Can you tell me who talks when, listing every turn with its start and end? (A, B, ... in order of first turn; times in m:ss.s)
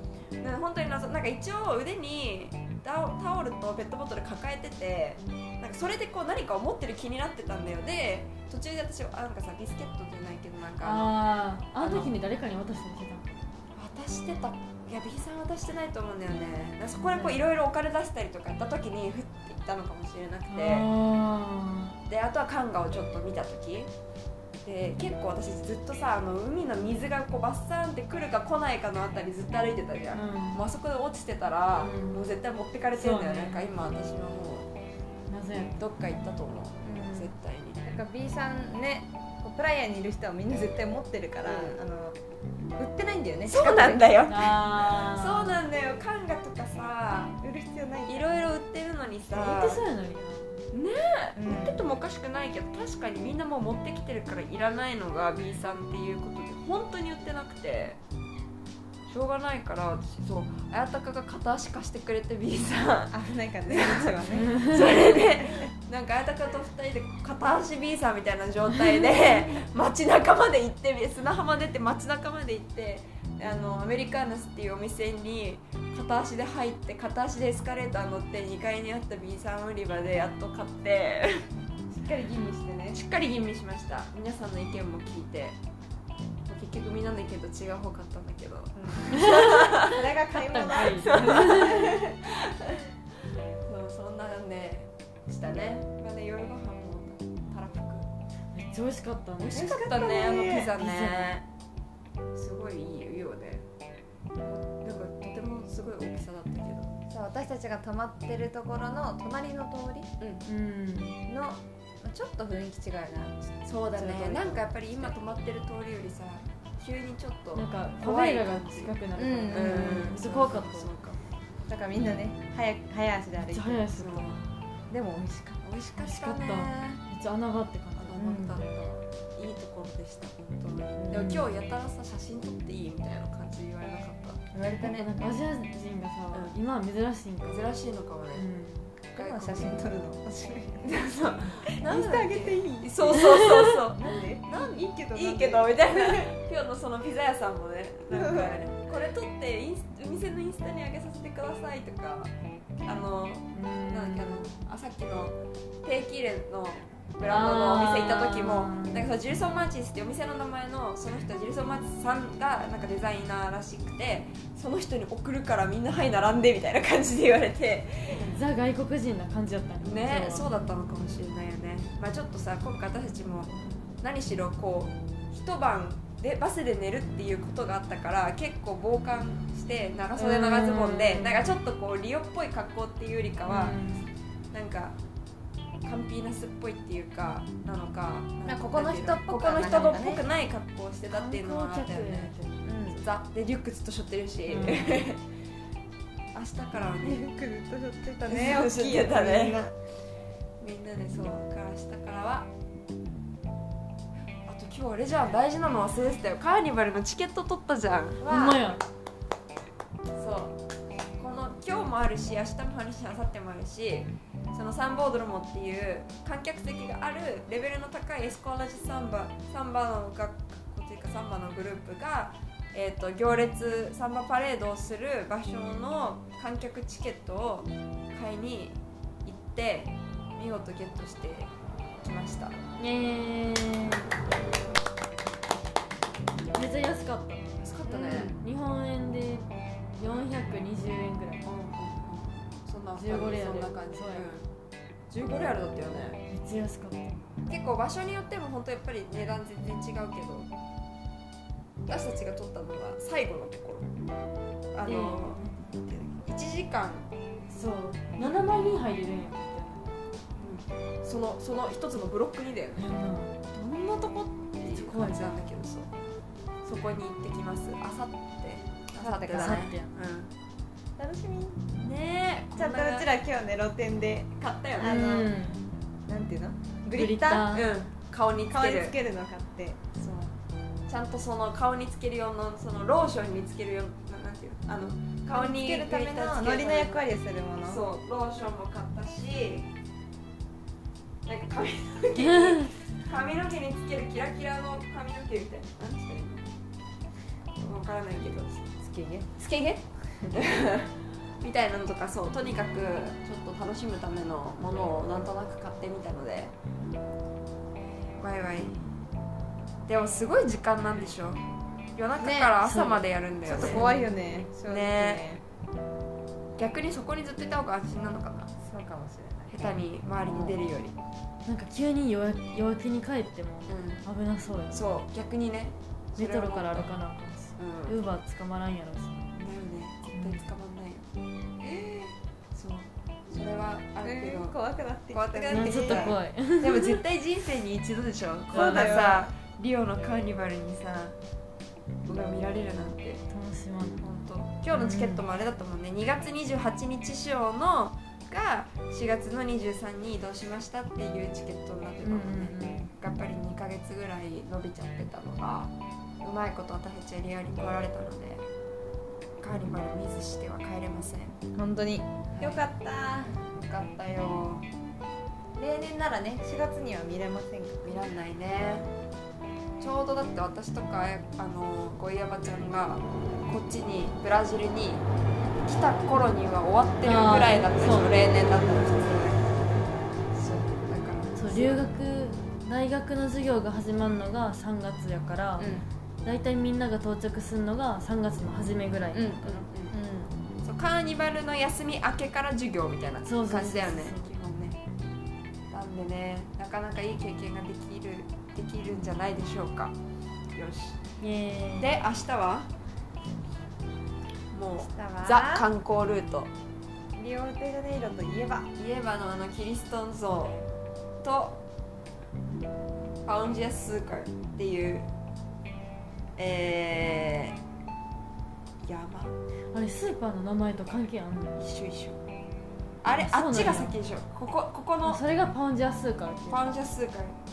0:00.4-0:11.1 A
0:10.8-0:13.3 B
0:11.8-0:12.1 A
0:13.8-0:20.9 A
0:16.9-0:17.4 B
0:20.5-0:22.0 B
0:22.1-0:23.9 A
0:24.6-0:34.7 A
0:30.1-0:30.6 B
0:31.8-0:32.2 B
0:32.9-0:33.7 B
0:35.3-0:35.8 B
0:35.8-0:37.8 A
0:36.8-0:37.3 B
0:37.8-0:42.2 C
0:41.4-0:41.8 A
0:42.8-0:44.2 C
0:43.5-0:47.4 A
0:44.2-0:45.6 B
0:47.4-0:48.3 C
0:48.0-0:49.8 A
0:49.3-0:50.6 B
0:50.7-0:58.0 A
0:51.4-0:51.8 C
0:59.1-1:21.5 A
1:03.1-1:04.6 C
1:04.4-1:04.8 B
1:21.9-1:23.0 C
1:22.9-1:25.6 A
1:26.5-1:30.0 A
1:28.7-1:32.1 C
1:29.2-1:32.0 B
1:30.9-1:32.7 A
1:33.7-1:38.1 A
1:38.5-1:39.6 B
1:39.4-1:41.4 A
1:39.5-1:40.7 C
1:40.7-1:41.4 B
1:42.4-1:43.6 A
1:44.4-1:47.0 A
1:47.1-1:50.1 C
1:50.4-1:51.2 B
1:51.3-1:55.1 C
1:53.6-1:58.9 A
1:57.5-2:00.9 B
1:59.2-2:00.0 C
1:59.5-2:01.2 A
2:01.7-2:03.9 C
2:03.5-2:04.4 B
2:03.9-2:04.4 A
2:04.9-2:05.6 C
2:05.6-2:07.0 A
2:06.0-2:08.2 B
2:08.0-2:14.4 A
2:08.2-2:08.6 C
2:11.1-2:11.4 B
2:14.5-2:15.2 C
2:14.8-2:17.7 B
2:17.4-2:18.4 A
2:18.3-2:18.9 B
2:19.1-2:19.8 A
2:19.2-2:20.9 C
2:20.8-2:32.3 A
2:21.7-2:23.4 C
2:23.9-2:26.3 C
2:28.1-2:28.6 C
2:32.8-2:48.4 A
2:33.5-2:34.5 B
2:37.2-2:39.0 B
2:48.2-2:50.5 B
2:49.8-3:03.8 A
3:00.2-3:01.6 B
3:03.5-3:04.1 B
3:04.5-3:04.9 A
3:05.8-3:12.3 A
3:08.4-3:10.2 C
3:11.1-3:13.0 B
3:12.9-3:15.2 A
3:14.5-3:15.0 B
3:16.3-3:17.2 A
3:17.0-3:19.7 C
3:18.2-3:19.6 A
3:20.6-3:22.5 A
3:24.4-3:28.3 A
3:28.2-3:28.6 C
3:28.2-3:28.8 B
3:30.2-3:30.6 A
3:31.2-3:51.5 A
3:52.0-3:52.6 A
3:52.8-3:54.1 B
3:56.4-4:01.4 B
3:57.6-3:58.4 A
4:01.4-4:04.5 A
4:02.9-4:04.2 B
4:05.1-4:06.2 A
4:06.3-4:07.2 B
4:07.5-4:10.5 A
4:11.9-4:13.9 A
4:14.7-4:17.1 A
4:14.8-4:15.5 B
4:17.5-4:20.0 B
4:20.4-4:22.8 A
4:22.8-4:23.4 B
4:23.5-4:25.9 A
4:24.6-4:25.4 B
4:26.6-4:30.3 A
4:29.0-4:30.0 B
4:29.1-4:29.5 C
4:31.0-4:31.7 C
4:31.8-4:33.1 A
4:32.5-4:35.4 C
4:34.4-4:35.0 A
4:34.8-4:35.6 B
4:36.1-4:37.5 C
4:36.9-4:37.7 B
4:37.5-4:39.0 A
4:38.5-4:39.8 C
4:40.0-4:40.3 A
4:40.9-4:47.0 A
4:45.3-4:47.8 C
4:47.6-4:49.7 A
4:51.2-4:56.4 A
4:52.3-4:52.7 B
4:57.6-4:58.6 A
4:58.8-4:59.3 C
4:59.4-5:00.9 A
5:01.4-5:06.5 A
5:08.2-5:08.8 A
5:09.9-5:11.4 A
5:12.0-5:14.0 A
5:12.2-5:12.5 C
5:12.6-5:13.1 B
5:13.4-5:15.4 C
5:14.6-5:15.3 A
5:16.6-5:18.5 A
5:18.6-5:20.5 C
5:19.5-5:21.0 A
5:21.4-5:24.8 B
5:23.7-5:24.0 A
5:24.7-5:26.9 A
5:26.2-5:29.3 B
5:27.6-5:28.0 A
5:29.3-5:31.1 A
5:30.1-5:30.4 B
5:31.6-5:32.1 C
5:32.5-5:34.6 A
5:34.0-5:36.2 C
5:35.1-5:41.1 A
5:35.5-5:37.0 B
5:38.5-5:38.9 B
5:38.5-5:39.3 C
5:42.1-5:43.2 A
5:43.3-5:44.1 B
5:44.0-5:55.7 A
5:44.7-5:45.2 B
5:52.0-5:52.9 B
5:56.2-5:58.4 A
5:59.4-6:01.4 A
6:01.5-6:03.3 C
6:02.4-6:02.6 A
6:03.4-6:04.7 A
6:05.6-6:08.0 C
6:07.8-6:08.9 A
6:09.8-6:15.0 A
6:15.6-6:19.7 A
6:17.0-6:18.3 B
6:20.3-6:21.9 A
6:21.3-6:25.7 B
6:25.6-6:25.9 C
6:26.2-6:29.6 B
6:29.2-6:29.9 A
6:29.9-6:30.3 C
6:30.6-6:34.8 A
6:33.2-6:34.3 B
6:35.7-6:39.9 A
6:40.5-6:41.0 A
6:41.2-6:41.9 B
6:41.8-6:42.7 A
6:44.5-6:46.5 A
6:44.8-6:45.7 C
6:47.1-6:48.7 C
6:48.8-6:50.6 A
6:51.2-6:51.6 A
6:53.2-6:55.0 A
6:56.4-6:57.5 A
6:58.8-6:59.3 A
6:59.7-7:01.6 B
7:01.6-7:02.2 A
7:03.0-7:05.2 A
7:03.1-7:03.9 B
7:05.0-7:06.8 B
7:06.5-7:07.4 A